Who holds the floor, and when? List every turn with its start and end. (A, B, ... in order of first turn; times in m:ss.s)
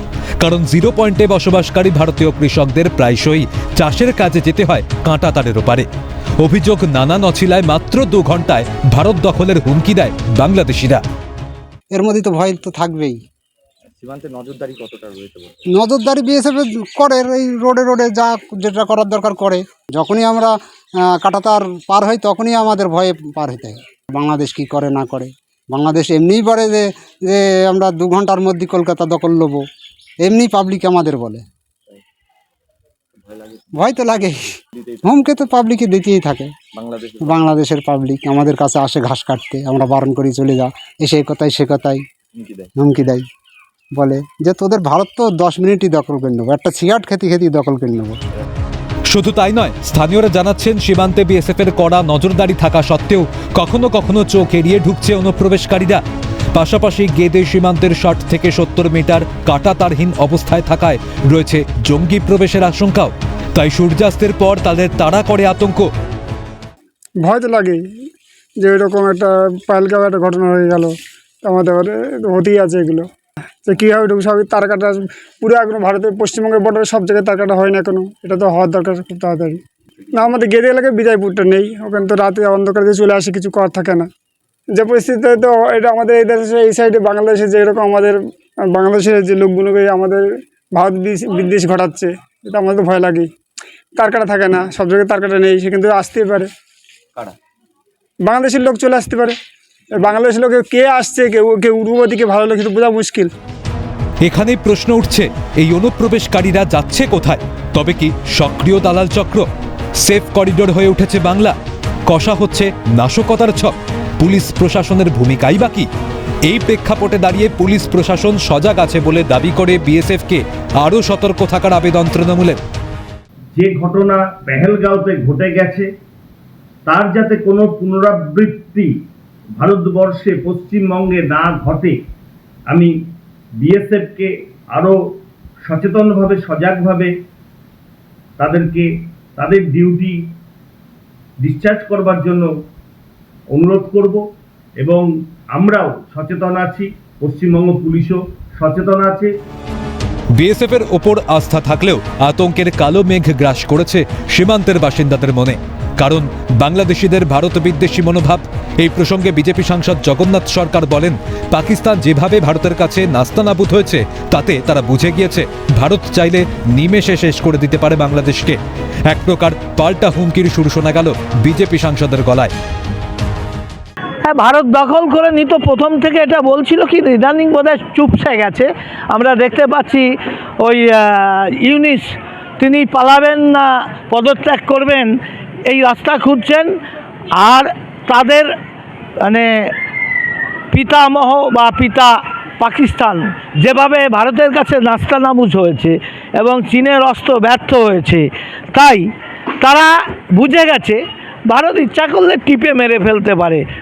0:00.4-0:05.9 A
0:06.4-0:11.0 A
0:11.9-0:13.2 B
0:13.9-0:15.6 C
0:15.7-0:20.5 B
0:21.1-0:29.6 B
0:30.2-0:31.4 B
0:33.2-0:33.7 C
0:33.7-0:34.3 B
0:34.8-0:35.0 C
0:35.0-0:36.5 B
0:36.8-0:37.5 C
0:37.2-0:42.0 B
0:42.4-0:42.7 C
0:42.8-0:43.2 B
0:44.0-0:48.2 B
0:49.1-0:56.0 A
0:56.5-1:05.9 A
1:07.2-1:07.8 D
1:08.6-1:13.1 D
1:13.6-1:19.6 D
1:20.2-1:24.0 D
1:24.8-1:28.2 D
1:28.7-1:30.2 D
1:30.8-1:33.3 D
1:34.0-1:36.5 D
1:38.3-1:39.4 D
1:40.0-1:43.3 D
1:44.2-1:49.4 A
1:50.0-1:51.6 A
1:52.1-1:55.9 A
1:56.5-2:02.6 A
2:03.6-2:05.9 E
2:06.9-2:08.9 E
2:09.6-2:11.9 E
2:13.6-2:15.0 E
2:15.6-2:17.1 E
2:18.4-2:20.1 E
2:21.4-2:22.5 E
2:23.5-2:24.2 E
2:24.8-2:29.3 E
2:30.4-2:52.5 A
2:54.2-3:00.1 F
3:00.6-3:02.1 F
3:02.6-3:05.1 F
3:05.7-3:06.7 F
3:07.4-3:08.5 F
3:09.2-3:09.7 F
3:10.7-3:19.0 F
3:19.6-3:23.6 F